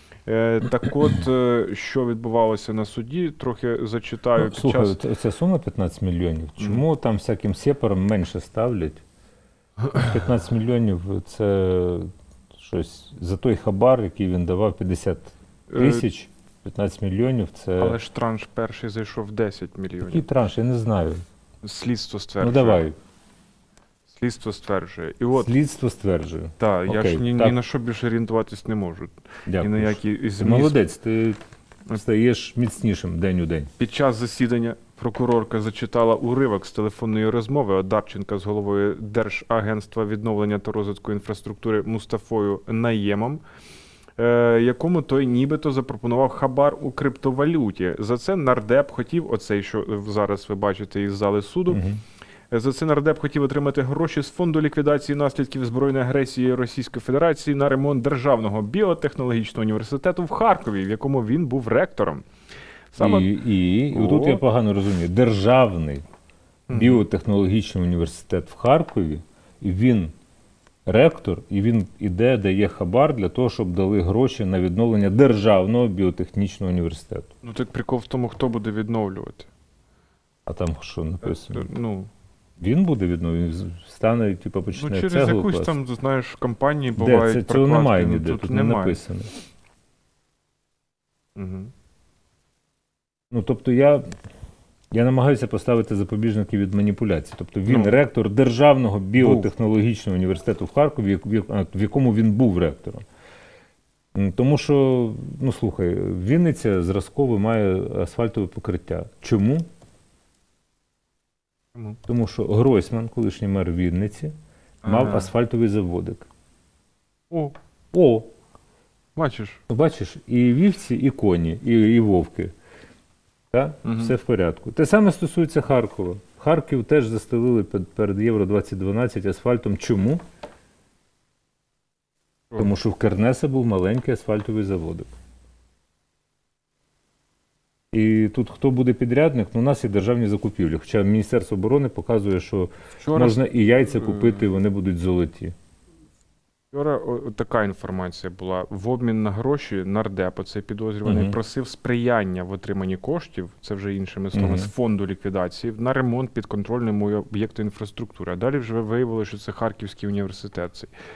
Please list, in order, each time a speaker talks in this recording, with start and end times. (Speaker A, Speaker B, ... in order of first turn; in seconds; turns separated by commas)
Speaker A: 0.3-5.0, Speaker B: 4.4-9.0, Speaker A: 6.6-6.8, Speaker B: 9.9-18.0, Speaker A: 15.7-16.1, Speaker A: 17.8-20.3, Speaker B: 20.0-21.2, Speaker A: 21.6-22.8, Speaker B: 22.4-23.0, Speaker A: 24.1-25.5, Speaker B: 25.4-27.6, Speaker A: 26.6-30.8, Speaker B: 29.5-33.7, Speaker A: 33.8-43.4, Speaker A: 44.2-51.8, Speaker B: 51.7-52.0, Speaker A: 52.5-62.3, Speaker A: 62.9-63.4, Speaker B: 63.0-66.0, Speaker A: 63.9-64.4, Speaker A: 66.7-67.0, Speaker B: 66.7-70.1, Speaker B: 70.9-77.3, Speaker A: 77.4-79.5, Speaker B: 80.5-81.7, Speaker A: 81.2-82.1, Speaker B: 82.6-85.8, Speaker A: 84.7-89.0, Speaker B: 87.0-89.3, Speaker A: 91.4-91.7, Speaker B: 93.3-94.0, Speaker B: 94.9-103.0, Speaker A: 97.7-98.0, Speaker B: 104.2-109.7, Speaker B: 112.1-116.3, Speaker A: 114.8-115.3, Speaker A: 117.3-117.6, Speaker B: 117.9-118.3, Speaker A: 119.2-119.6, Speaker B: 119.7-122.5, Speaker B: 123.5-130.2, Speaker A: 123.8-124.1, Speaker B: 132.6-135.1, Speaker B: 137.9-145.5, Speaker A: 143.0-144.3, Speaker A: 146.7-160.9, Speaker B: 151.1-151.4, Speaker B: 154.3-154.7